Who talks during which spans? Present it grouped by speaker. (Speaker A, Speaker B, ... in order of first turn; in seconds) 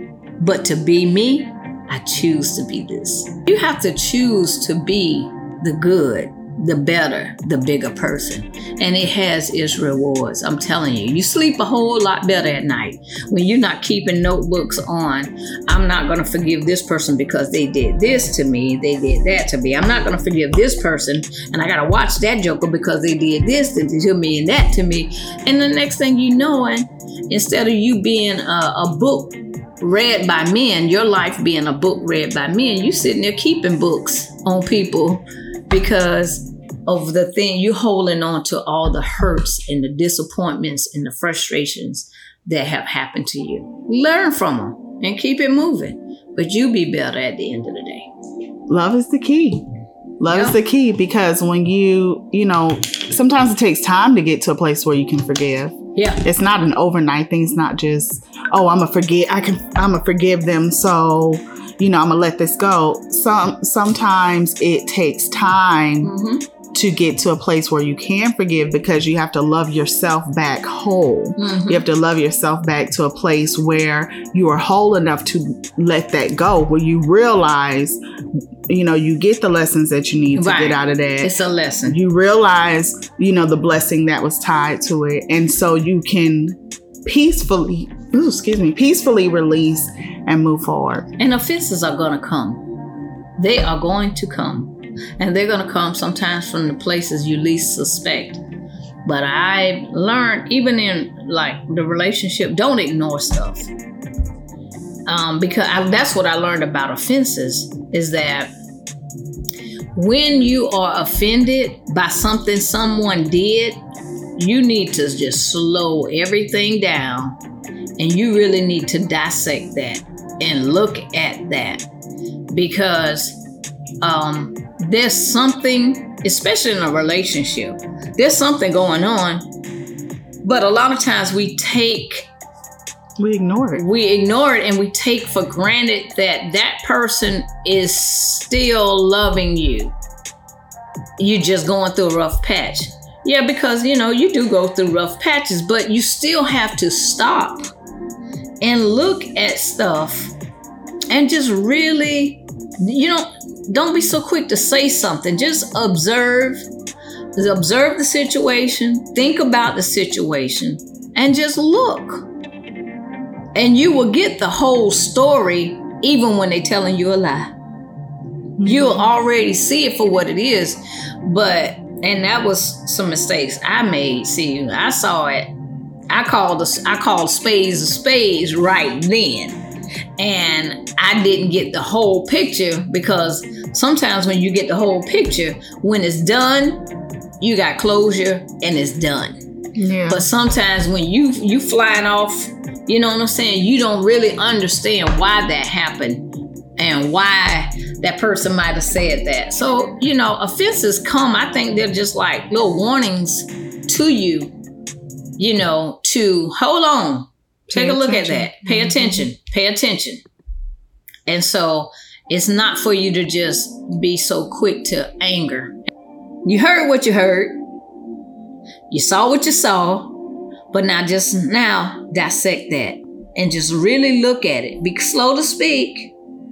Speaker A: 0.4-48.1, 50.3-50.6, 56.0-56.2, 66.0-66.4, 71.4-71.8, 80.3-82.0, 91.2-92.6, 93.4-98.4, 99.0-103.7, 105.0-108.5, 109.9-113.8, 114.4-117.4, 118.0-121.8, 122.5-123.4, 124.0-129.5, 130.4-132.3, 133.7-139.9, 141.2-147.7, 148.6-150.3, 151.1-156.6, 157.3-162.3, 163.5-167.5, 168.6-175.5, 176.1-179.6, 180.2-186.8, 187.4-189.4, 190.1-204.5, 205.4-210.2, 211.2-215.8, 216.4-217.6, 218.9-220.2, 220.7-226.1
Speaker B: 48.7-49.6, 50.2-66.1, 66.7-78.0, 78.7-81.3, 81.8-91.1, 133.2-133.8, 168.6-169.1, 189.8-190.2, 207.7-209.3